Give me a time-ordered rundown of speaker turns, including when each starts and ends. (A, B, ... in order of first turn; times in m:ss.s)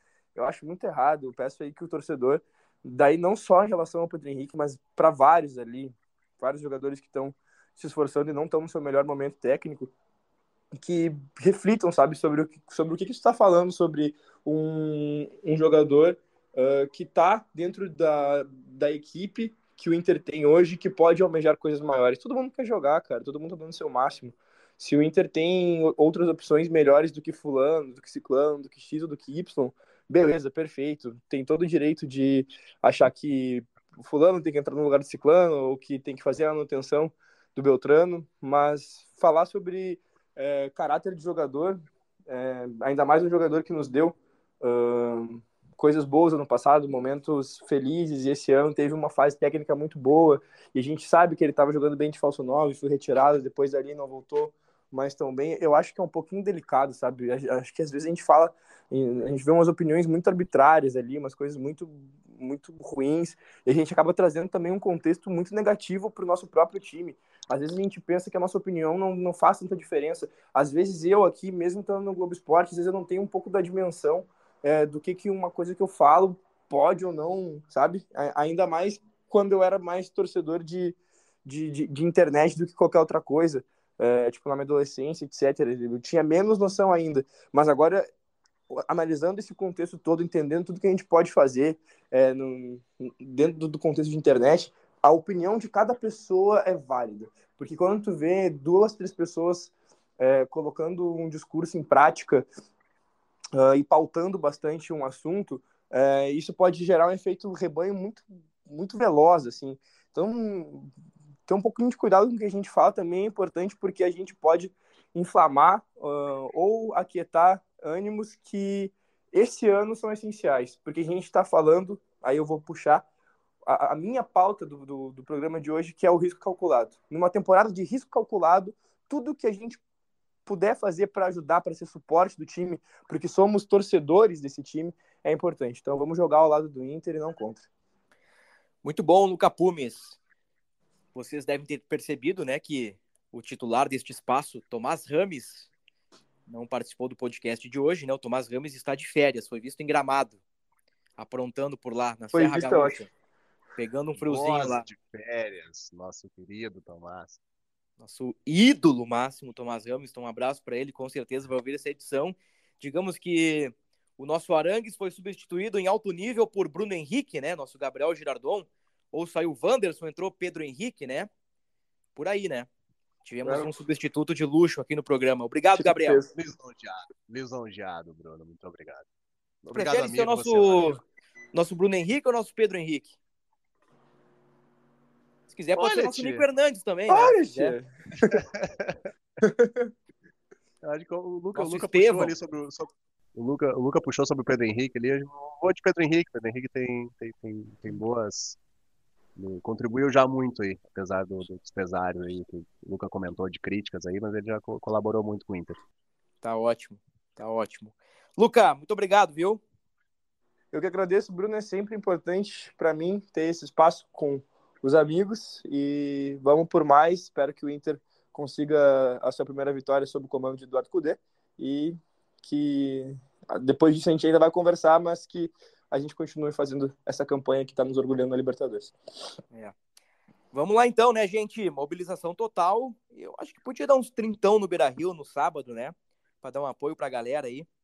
0:00.3-0:09.9 A
0:10.8-1:28.1 A
1:28.7-1:42.5 A
1:43.6-1:50.9 A
1:51.5-2:03.0 A
2:03.7-2:09.8 A
2:10.4-2:17.7 A
2:18.8-2:20.2 B
2:21.1-2:25.7 B
2:26.5-2:30.4 B
2:31.2-2:33.1 B
2:32.3-2:33.0 A
2:33.8-2:34.8 B
2:34.1-2:37.4 C
2:38.0-2:51.3 B
2:52.2-2:52.7 B
2:53.2-2:56.2 B
2:55.8-2:56.3 A
2:56.3-2:59.0 C
2:59.6-3:01.0 C
2:59.7-3:01.0 B
3:01.5-3:03.1 B
3:05.5-3:07.8 B
3:05.8-3:06.4 C
3:07.1-3:08.4 A
3:08.2-3:09.0 C
3:09.4-3:09.9 A
3:10.8-3:18.6 C
3:11.6-3:12.3 B
3:19.4-3:25.8 C
3:26.4-3:29.6 B
3:30.7-3:48.9 A
3:50.5-3:57.7 B